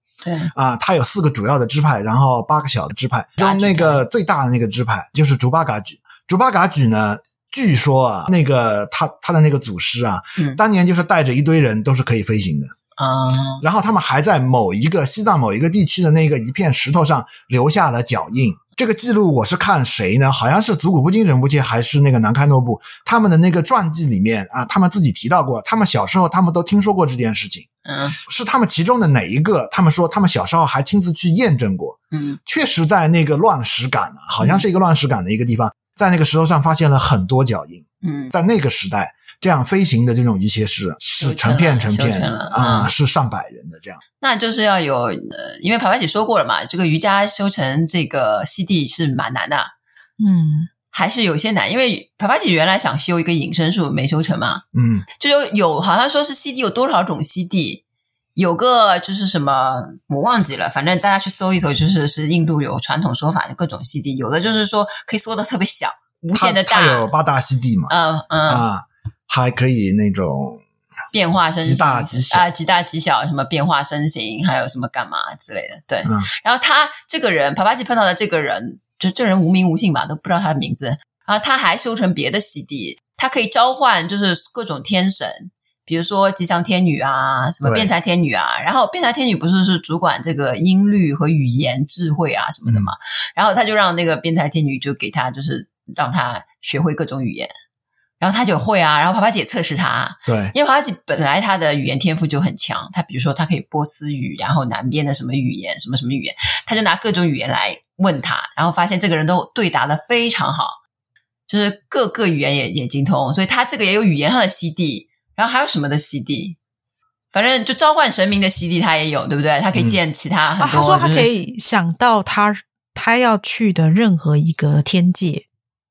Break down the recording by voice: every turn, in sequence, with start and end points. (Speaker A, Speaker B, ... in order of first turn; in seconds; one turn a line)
Speaker A: 0.2-0.5
Speaker B: 0.5-12.7
Speaker A: 3.4-4.0
Speaker A: 13.0-13.6
Speaker B: 13.6-27.7
Speaker A: 27.9-28.2
Speaker B: 28.3-44.0
Speaker A: 32.1-32.4
Speaker A: 34.4-34.6
Speaker A: 38.0-38.3
Speaker A: 41.2-42.9
Speaker A: 44.2-49.7
Speaker C: 50.2-50.7
Speaker A: 50.9-54.6
Speaker B: 54.7-55.1
Speaker A: 55.2-57.8
Speaker A: 58.4-67.1
Speaker B: 66.3-67.9
Speaker A: 67.9-68.7
Speaker B: 68.5-70.6
Speaker A: 71.1-97.5
Speaker B: 71.6-72.5
Speaker B: 87.6-87.9
Speaker B: 92.7-92.9
Speaker A: 98.2-110.8
Speaker B: 100.3-100.5
Speaker A: 111.5-116.6
Speaker A: 117.3-121.4
Speaker C: 120.6-125.5